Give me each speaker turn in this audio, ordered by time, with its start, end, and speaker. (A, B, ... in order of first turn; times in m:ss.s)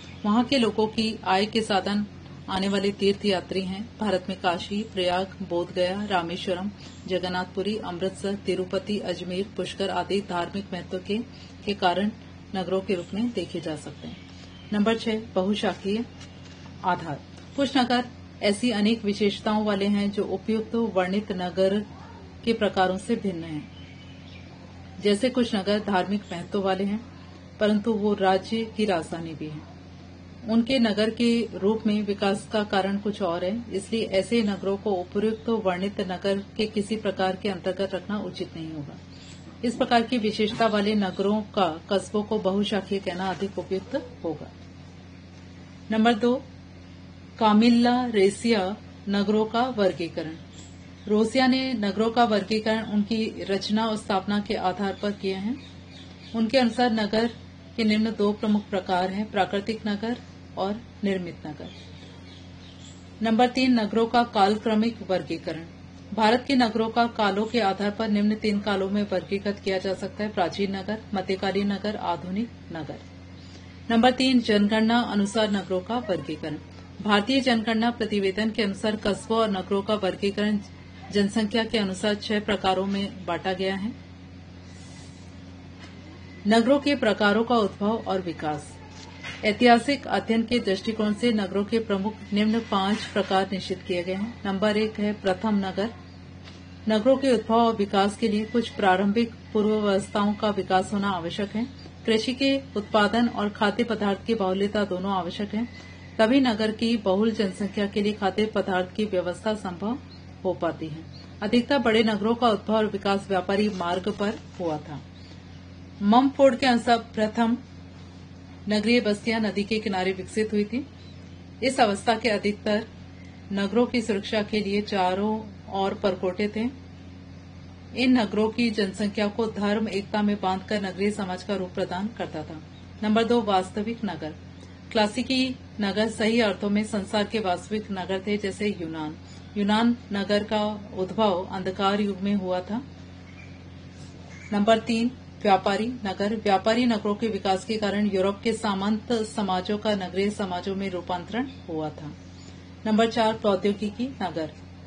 0:00.2-0:14.2 A
0:14.7-0:16.0 A
0:16.8-0:21.8 A
0:22.4-0:23.7 A
0:25.0-0:27.0 A
0:27.6-0:29.6 A
0:30.4-0:39.0 A
0:39.6-0:44.5 A
0:45.9-0:46.4 A
0:47.4-0:50.4 A
0:51.0-0:55.6 A
0:56.3-1:01.7 A
1:03.2-1:13.0 A
1:13.9-1:23.9 A
1:26.4-1:28.8 A
1:29.4-1:35.9 A
1:36.8-1:55.0 A
1:56.0-1:57.6 A
1:58.7-2:00.8 A
2:01.6-2:02.8 A
2:03.5-2:06.7 A
2:07.9-2:14.4 A
2:14.9-2:22.8 A
2:24.5-2:32.1 A
2:32.8-2:34.5 A